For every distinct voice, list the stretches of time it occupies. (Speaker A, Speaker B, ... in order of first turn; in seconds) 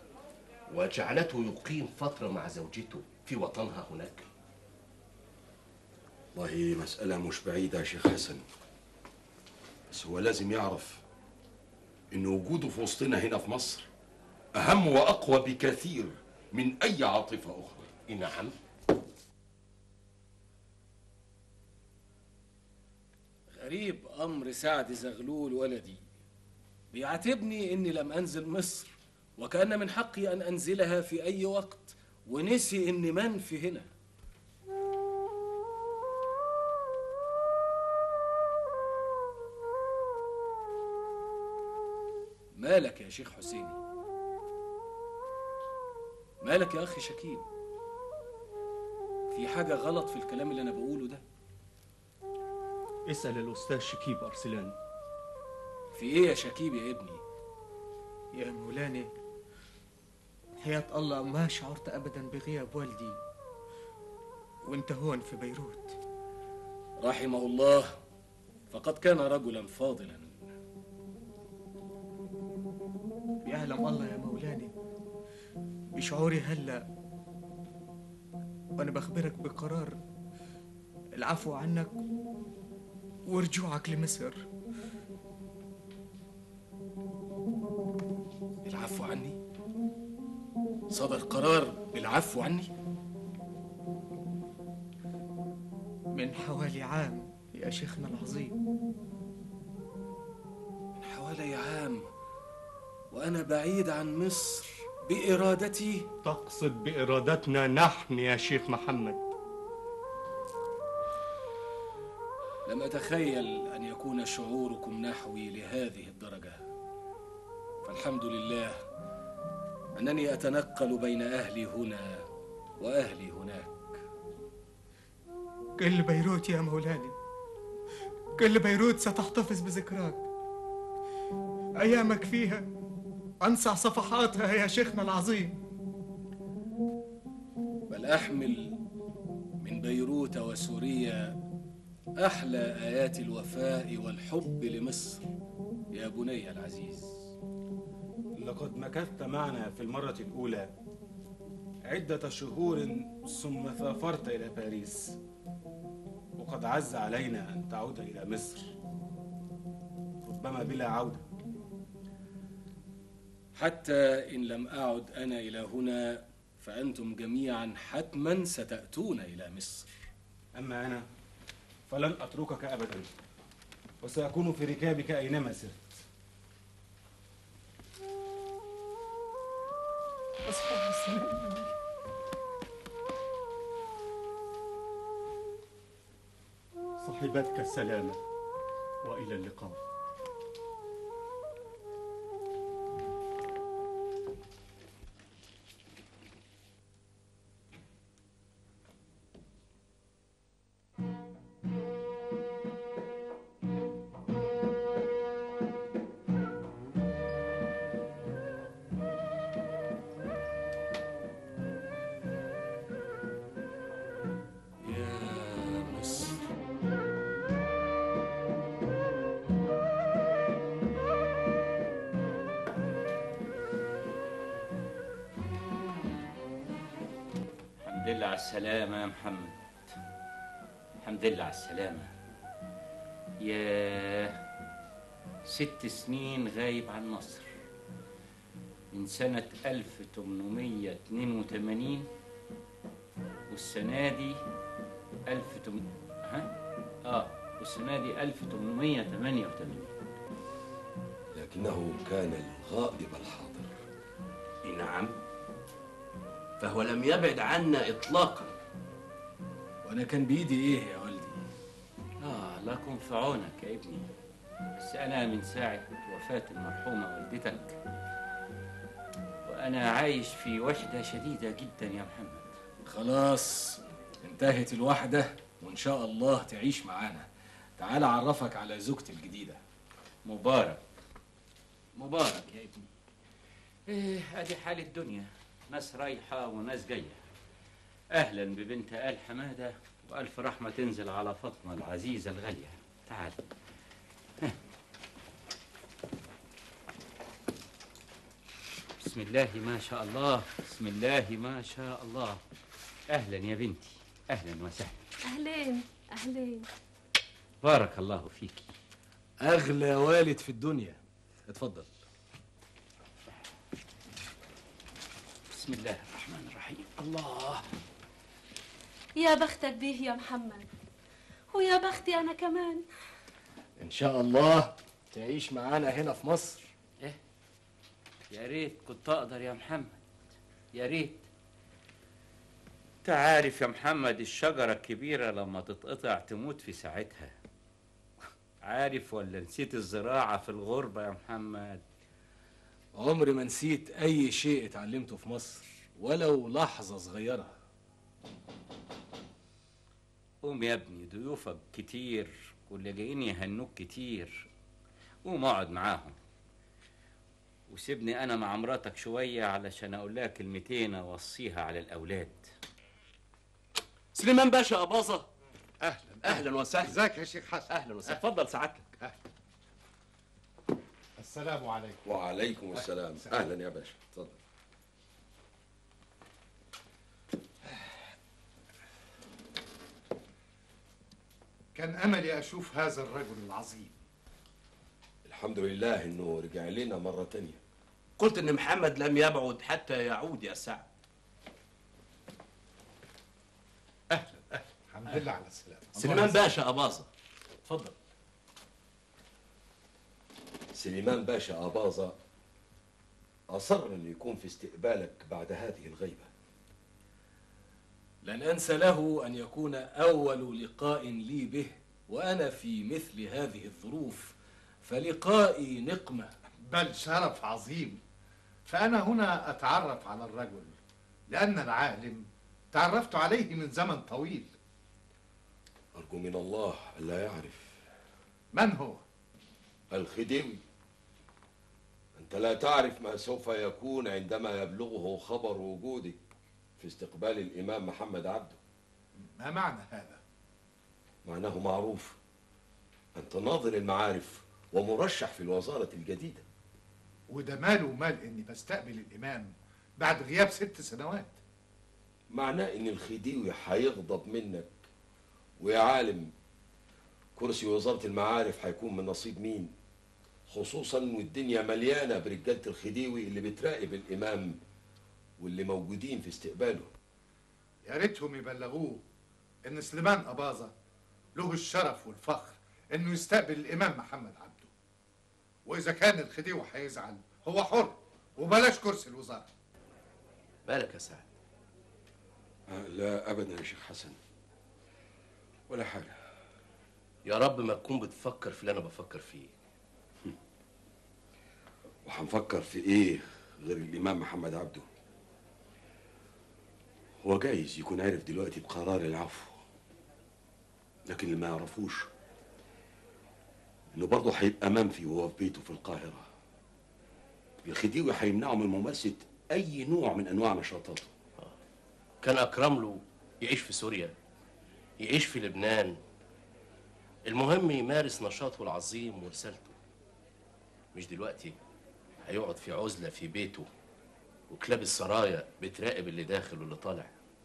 Speaker A: 0.7-4.3, 18.1-18.5, 254.6-255.1, 256.6-258.5, 364.1-365.2, 366.2-367.0, 367.7-368.8, 388.2-390.8, 395.9-397.1, 480.7-481.3, 487.2-489.5, 512.2-514.1, 515.0-516.0, 517.3-519.8, 520.9-521.5, 522.2-523.7, 524.5-527.1
Speaker B: 6.3-8.4, 9.9-11.0, 12.1-13.9, 14.5-17.9, 251.3-253.7, 372.0-374.4, 385.2-387.6, 400.7-402.1, 403.5-406.3, 425.9-427.8, 429.9-430.6, 432.1-436.2, 436.8-438.6, 441.2-442.2, 443.1-446.4, 452.3-454.7, 455.6-456.3, 457.4-459.7, 460.5-464.6, 465.4-466.9, 482.7-484.2, 485.7-486.2, 492.0-494.8, 497.2-499.6, 501.1-502.1, 503.9-506.3, 507.6-511.1
Speaker C: 23.6-26.0, 26.9-33.9, 42.5-43.8, 46.4-47.5, 49.3-51.2, 55.9-57.2, 67.0-68.0, 68.7-70.4, 88.6-89.4, 90.9-92.7, 101.0-102.1, 103.1-106.1, 112.7-116.6, 117.8-118.8, 120.0-122.2, 122.8-124.0, 137.9-138.8, 139.6-141.4, 142.2-145.2, 145.9-147.3, 163.5-169.9, 214.8-216.4, 259.8-261.4, 272.9-277.3, 277.8-279.6, 309.4-311.9, 317.0-317.6, 323.8-326.7, 342.9-347.6, 408.2-416.3
Speaker D: 53.1-54.7, 106.2-109.3, 187.0-188.2, 189.0-189.8
Speaker E: 58.3-59.1, 60.6-63.2, 64.6-66.0, 73.5-74.7, 75.9-76.8, 78.8-80.0, 81.2-82.0, 83.2-84.4, 96.1-98.5, 125.8-127.1, 128.4-130.2, 131.8-132.7, 133.4-135.6, 180.4-181.6
Speaker F: 148.3-150.7, 151.8-155.2, 156.4-158.7, 160.2-161.2, 170.5-171.0, 171.9-173.1, 174.0-176.0
Speaker G: 227.8-229.5, 231.0-232.1, 233.4-234.4, 235.4-237.5, 238.9-242.1, 243.5-244.4, 245.3-246.5, 247.1-249.9, 262.2-264.1, 264.8-267.8, 269.4-272.5, 280.2-280.8, 282.0-282.5, 283.9-287.2, 288.1-293.4, 299.0-302.4, 303.1-305.0, 307.6-308.6, 315.5-316.9, 328.3-330.0, 330.8-331.1, 333.0-337.3, 338.6-341.8, 350.4-354.5, 355.2-356.1, 357.7-362.4
Speaker H: 305.2-306.7, 319.1-320.7, 321.5-322.8
Speaker I: 365.8-368.2, 371.2-372.0, 381.7-384.0, 394.1-396.4, 416.7-418.0, 418.6-420.8, 421.3-424.5, 428.5-429.0, 439.3-440.2, 447.3-451.4, 467.8-469.0, 469.6-470.7, 471.4-474.7, 475.6-479.4